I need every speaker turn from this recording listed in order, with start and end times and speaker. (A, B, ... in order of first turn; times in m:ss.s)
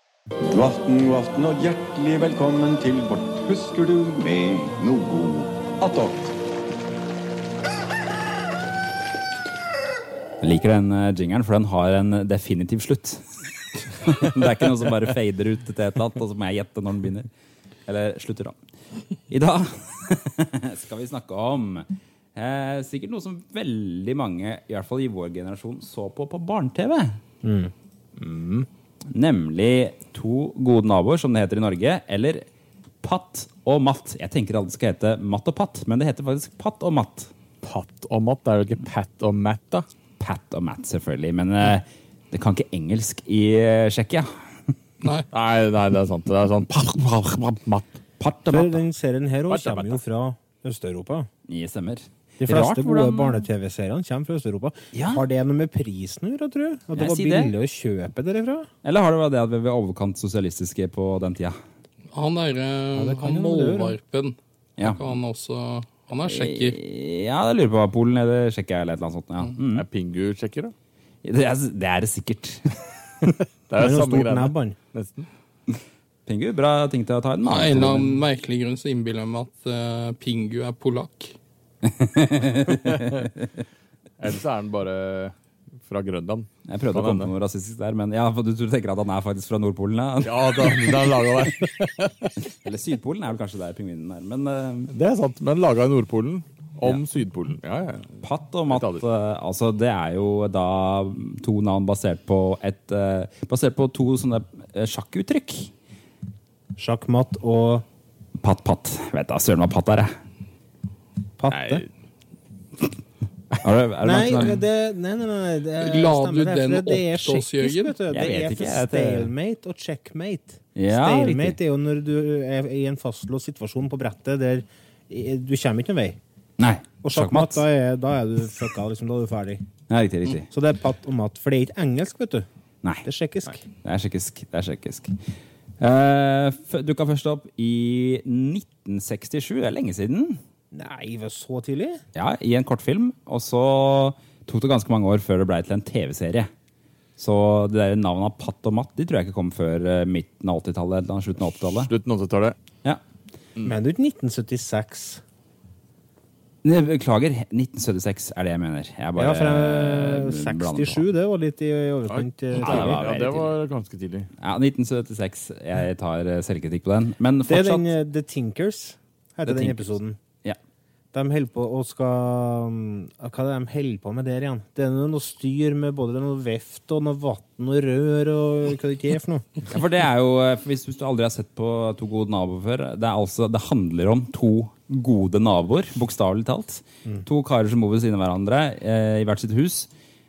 0:00.4-0:06.4 A
0:10.4-0:17.3 B
0:17.9-0:27.2 B
0:27.4-0:27.7 C
0:28.2-0:28.7 D
0:29.1-0:32.4 B
0:33.0-0:37.3 B
0:37.6-0:39.9 D
0:40.2-0:44.8 B
0:45.3-0:48.0 D
0:48.2-0:48.8 B
0:48.5-0:51.3 C
0:49.5-0:50.0 D
0:51.5-0:53.5 B
0:52.4-0:58.7 C
0:54.9-0:55.2 B
0:56.9-0:57.5 B
0:58.8-1:01.6 B
1:02.1-1:06.8 E
1:03.0-1:04.0 C
1:04.8-1:05.1 B
1:06.2-1:09.8 B
1:09.7-1:10.7 D
1:11.2-1:13.4 B
1:13.7-1:15.3 D
1:13.8-1:14.8 C
1:15.7-1:18.1 B
1:17.4-1:21.4 E
1:21.8-1:23.4 B
1:22.5-1:22.9 D
1:24.2-1:27.3 D
1:26.6-1:31.2 B
1:30.2-1:32.4 D
1:32.5-1:34.9 B
1:34.9-1:38.2 D
1:38.2-1:45.7 B
1:38.7-1:39.0 D
1:46.8-1:47.8 C
1:48.4-1:50.1 B
1:51.4-1:51.8 C
1:51.5-1:51.9 D
1:53.6-1:54.6 B
1:54.0-2:06.2 C
1:55.8-1:58.0 E
1:58.1-1:59.3 B
2:00.8-2:01.6 B
2:06.6-2:07.6 B
2:07.0-2:09.6 C
2:09.9-2:10.5 B
2:10.4-2:12.5 C
2:12.8-2:15.2 B
2:13.0-2:13.7 C
2:15.8-2:20.4 B
2:20.7-2:22.0 C
2:22.2-2:26.5 B
2:27.2-2:31.9 B
2:31.6-2:32.6 D
2:33.6-2:35.2 C
2:36.6-2:41.1 B
2:39.2-2:43.0 C
2:42.1-2:44.3 D
2:42.6-2:43.6 B
2:44.4-2:47.9 B
2:47.5-2:50.2 C
2:49.5-2:50.6 B
2:51.1-2:59.5 C
2:59.7-3:09.9 B